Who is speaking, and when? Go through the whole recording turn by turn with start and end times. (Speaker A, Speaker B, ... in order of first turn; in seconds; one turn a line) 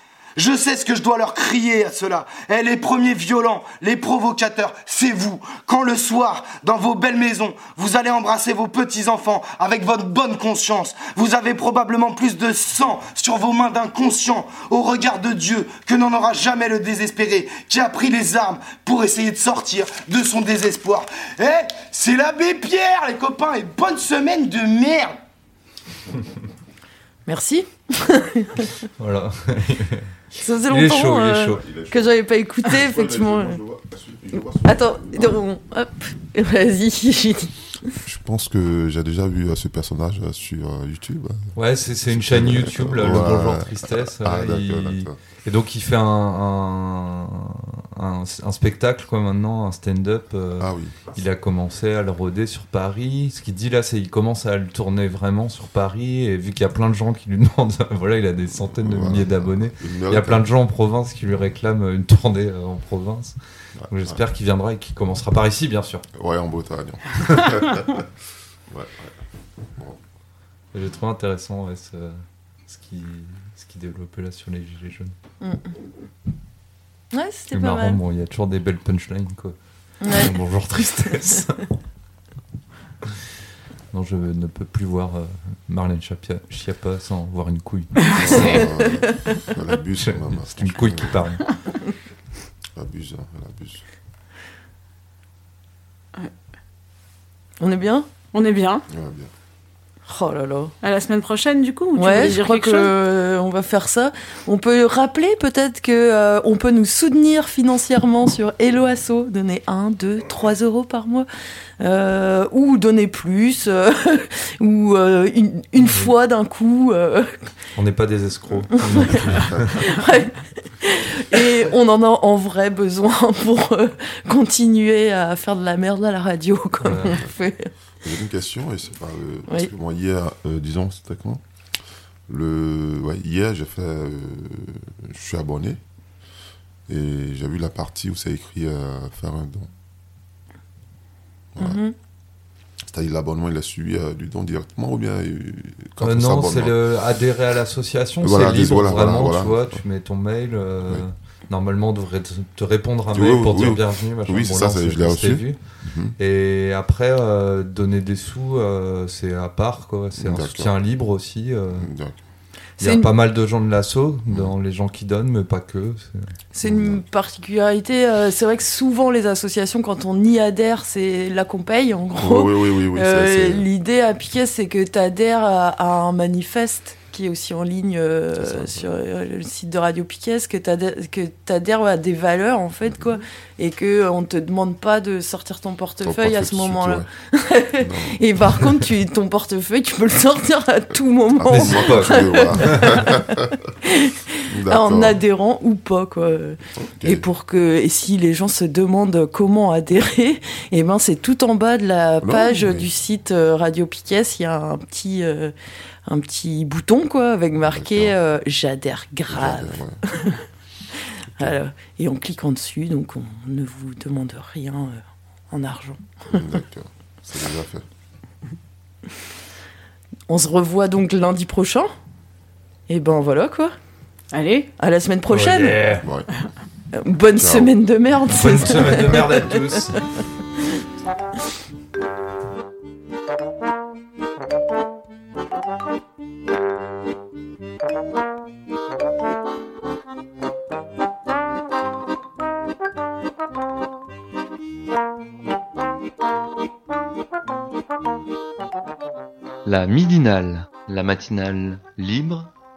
Speaker A: 0.4-25.1
Speaker B: 27.2-28.7
Speaker C: 29.0-30.1
Speaker B: 30.4-33.6
Speaker C: 30.7-31.6
Speaker D: 31.6-35.4
Speaker B: 34.3-37.5
Speaker D: 38.0-45.2
Speaker C: 41.5-63.4
Speaker D: 50.6-51.1
Speaker D: 58.8-60.4
Speaker D: 63.8-64.2
Speaker C: 63.9-66.0
Speaker D: 66.1-68.1
Speaker D: 68.7-69.1
Speaker C: 70.7-75.1
Speaker B: 77.1-78.0
Speaker C: 77.5-81.6
Speaker B: 80.0-80.3
Speaker C: 83.9-88.6
Speaker D: 88.1-91.2
Speaker C: 90.0-91.4
Speaker D: 92.8-93.8
Speaker B: 97.6-98.1
Speaker E: 98.3-98.8
Speaker D: 98.9-99.3
Speaker B: 100.1-100.7
Speaker E: 100.8-102.9
Speaker B: 102.0-111.3
Speaker B: 111.8-117.3
Speaker C: 117.8-119.7
Speaker D: 119.3-119.7
Speaker B: 119.8-127.7
Speaker C: 126.8-127.2
Speaker D: 128.0-131.4
Speaker D: 132.3-135.8
Speaker D: 136.9-139.7
Speaker D: 141.5-141.8
Speaker B: 141.6-141.9
Speaker D: 142.9-146.7
Speaker C: 146.0-155.6
Speaker D: 148.2-149.8
Speaker D: 153.1-156.1
Speaker C: 156.1-161.9
Speaker D: 160.2-160.7
Speaker D: 161.7-162.2
Speaker B: 162.8-163.1
Speaker C: 162.8-166.3
Speaker B: 166.5-205.5
Speaker D: 166.6-167.0
Speaker D: 172.2-173.7
Speaker D: 178.4-178.9
Speaker D: 182.9-183.2
Speaker D: 186.0-187.1
Speaker D: 187.8-188.7
Speaker D: 191.3-193.5
Speaker C: 191.5-193.1
Speaker D: 194.5-195.2
Speaker D: 196.8-197.2
Speaker D: 202.2-202.9
Speaker B: 206.1-210.4
Speaker D: 207.7-208.1
Speaker D: 209.3-210.0
Speaker B: 211.4-216.4
Speaker D: 216.3-217.8
Speaker B: 220.3-221.9
Speaker B: 222.9-223.7
Speaker E: 224.3-224.7
Speaker B: 224.8-225.8
Speaker C: 225.3-226.1
Speaker D: 226.0-226.3
Speaker B: 226.9-229.9
Speaker D: 227.3-227.7
Speaker C: 228.3-230.0
Speaker D: 228.7-229.2
Speaker C: 249.7-252.5